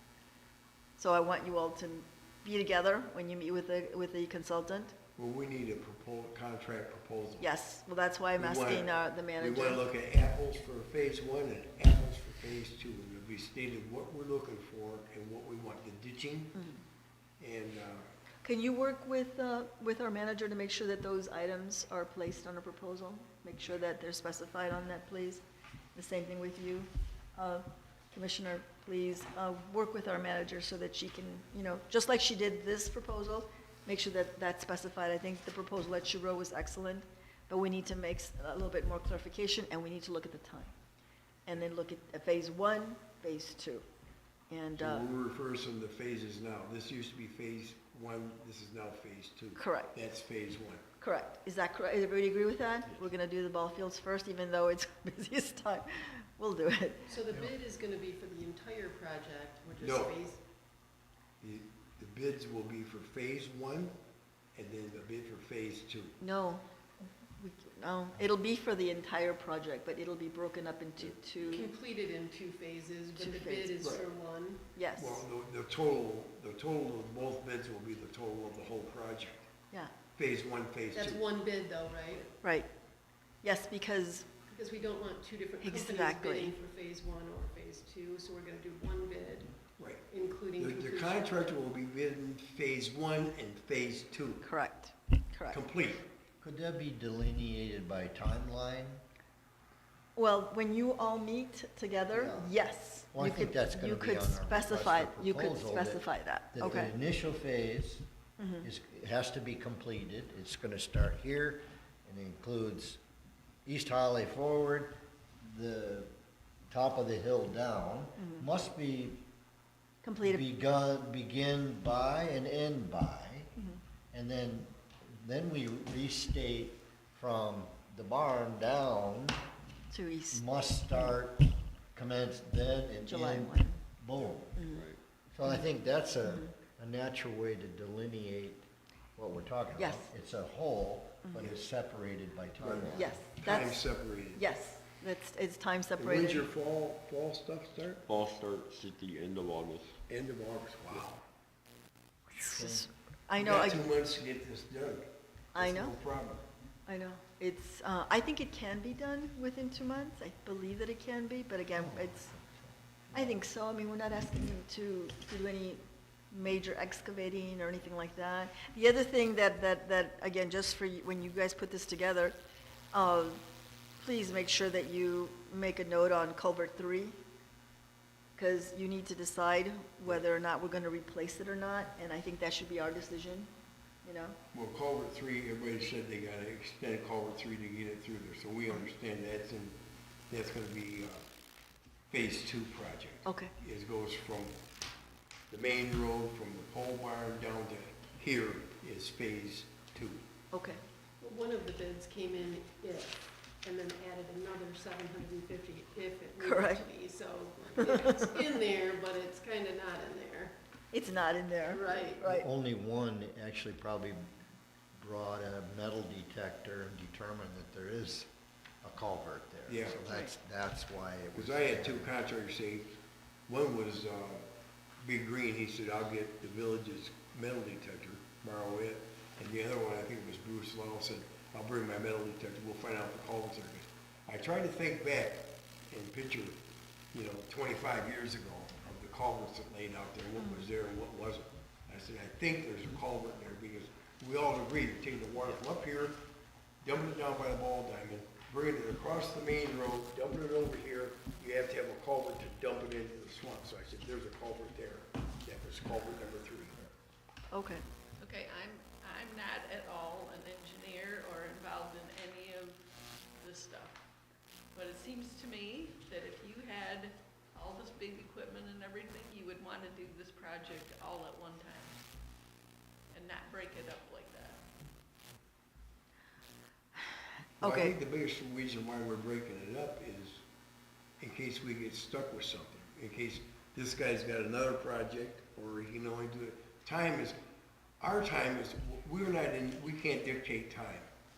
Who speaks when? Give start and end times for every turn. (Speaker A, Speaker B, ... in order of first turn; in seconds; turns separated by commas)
Speaker A: 1.0-5.0, Speaker B: 5.2-7.5, Speaker A: 7.4-9.8, Speaker B: 8.4-16.6, Speaker B: 17.4-18.1, Speaker A: 18.4-25.4, Speaker A: 25.9-40.7, Speaker A: 41.5-43.9, Speaker A: 44.5-45.1, Speaker B: 44.8-50.8, Speaker A: 49.6-50.0, Speaker A: 51.0-57.1, Speaker C: 57.1-60.4, Speaker B: 59.8-60.1, Speaker B: 61.4-64.0, Speaker B: 64.5-66.2, Speaker A: 66.2-66.6, Speaker A: 67.3-71.7, Speaker C: 71.5-74.8, Speaker A: 73.2-74.0, Speaker A: 74.8-75.2, Speaker B: 75.0-79.5, Speaker B: 80.2-81.2, Speaker C: 80.9-82.3, Speaker A: 82.4-82.7, Speaker A: 83.4-84.3, Speaker C: 84.5-91.6, Speaker A: 85.6-86.5, Speaker B: 89.8-90.1, Speaker B: 90.6-94.5, Speaker A: 94.4-95.6, Speaker B: 95.5-96.1, Speaker D: 96.4-99.0, Speaker A: 100.2-106.9, Speaker D: 102.1-102.5, Speaker D: 103.1-108.1, Speaker A: 108.4-108.7, Speaker D: 108.6-113.0, Speaker D: 113.7-116.1, Speaker D: 116.7-119.2, Speaker A: 118.2-118.4, Speaker A: 120.0-120.4, Speaker D: 120.2-123.5, Speaker D: 124.1-129.4, Speaker A: 129.9-131.2, Speaker D: 130.3-134.6, Speaker A: 133.1-133.8, Speaker A: 134.6-134.9, Speaker E: 134.7-135.0, Speaker D: 135.3-143.2, Speaker A: 136.2-136.5, Speaker A: 139.8-140.1, Speaker A: 141.2-141.5, Speaker B: 142.6-144.4, Speaker A: 142.9-146.5, Speaker B: 146.0-148.0, Speaker E: 148.1-150.0, Speaker B: 150.1-151.2, Speaker D: 152.3-152.9, Speaker A: 152.3-153.8, Speaker B: 153.4-156.4, Speaker A: 155.6-156.0, Speaker A: 156.9-162.3, Speaker D: 161.8-163.4, Speaker A: 163.1-172.4, Speaker A: 172.9-173.4, Speaker A: 174.0-177.2, Speaker A: 178.4-183.5, Speaker A: 184.0-184.4, Speaker B: 184.5-189.8, Speaker B: 190.3-191.2, Speaker B: 192.1-194.6, Speaker A: 193.2-193.5, Speaker B: 195.5-200.3, Speaker A: 200.5-200.8, Speaker C: 201.2-210.5, Speaker A: 206.4-206.9, Speaker A: 210.9-212.5, Speaker C: 211.7-212.3, Speaker D: 212.2-214.2, Speaker D: 215.0-218.3, Speaker D: 218.8-222.1, Speaker B: 219.7-220.0, Speaker A: 220.1-220.3, Speaker B: 221.3-223.0, Speaker B: 223.5-224.4, Speaker B: 225.0-236.6, Speaker B: 237.1-246.2, Speaker A: 240.4-240.7, Speaker B: 246.8-256.8, Speaker A: 257.5-257.8, Speaker F: 258.2-264.0, Speaker F: 264.7-272.0, Speaker F: 273.1-274.6, Speaker A: 277.6-277.9, Speaker B: 277.6-280.4, Speaker B: 281.2-287.4, Speaker B: 288.0-291.1